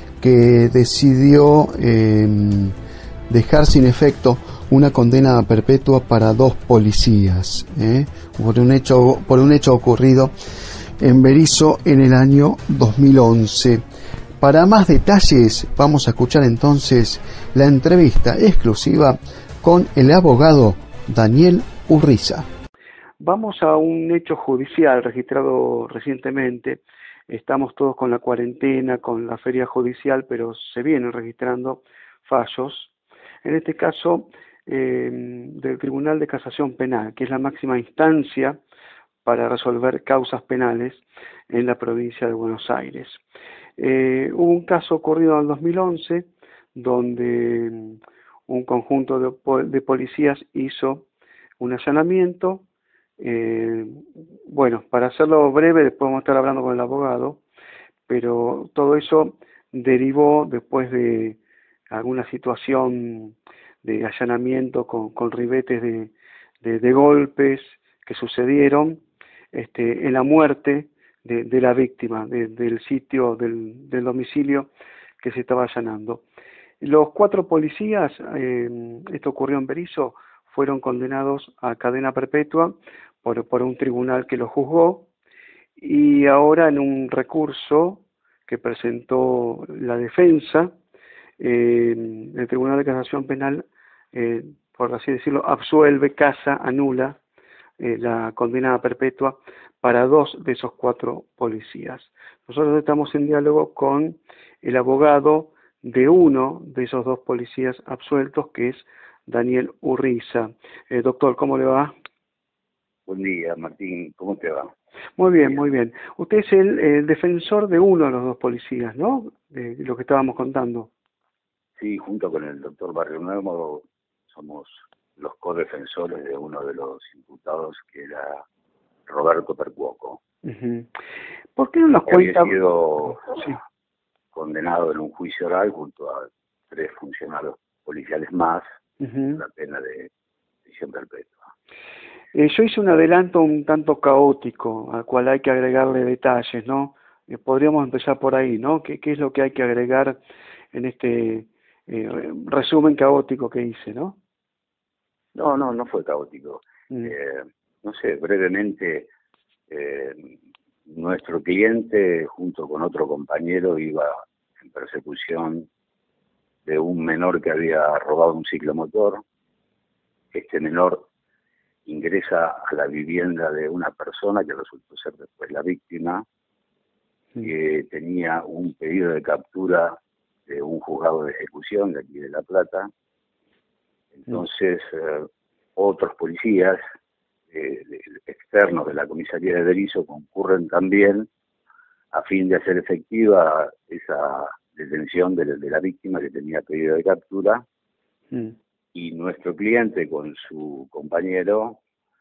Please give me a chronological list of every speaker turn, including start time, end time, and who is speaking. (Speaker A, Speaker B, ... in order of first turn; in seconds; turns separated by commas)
Speaker A: 0.2-2.7, Speaker A: 3.3-10.3, Speaker A: 11.0-13.8, Speaker A: 14.4-22.5, Speaker B: 23.2-32.9, Speaker B: 33.4-38.6, Speaker B: 39.2-43.2, Speaker B: 43.8-51.1, Speaker B: 51.6-52.6, Speaker B: 53.2-57.4, Speaker B: 58.1-61.4, Speaker B: 61.9-69.0, Speaker B: 69.5-74.7, Speaker B: 75.2-76.2, Speaker B: 76.8-85.1, Speaker B: 85.8-90.7, Speaker B: 91.4-97.2, Speaker B: 97.8-111.9, Speaker C: 113.1-114.7, Speaker B: 115.2-120.9, Speaker C: 115.4-115.7, Speaker C: 121.8-128.4, Speaker C: 129.1-130.2, Speaker B: 130.4-130.9, Speaker B: 131.6-133.6, Speaker C: 132.1-133.5, Speaker C: 134.3-138.6, Speaker B: 139.0-139.4, Speaker C: 139.3-140.1, Speaker C: 140.7-141.5, Speaker B: 142.3-150.2, Speaker B: 150.7-154.2, Speaker C: 155.3-159.1, Speaker C: 159.7-160.4, Speaker C: 160.9-165.7, Speaker C: 166.7-169.2, Speaker C: 170.3-171.1, Speaker C: 171.9-176.2, Speaker C: 177.4-182.9, Speaker C: 184.2-186.8, Speaker C: 187.5-191.3, Speaker C: 192.1-197.6, Speaker C: 198.9-201.8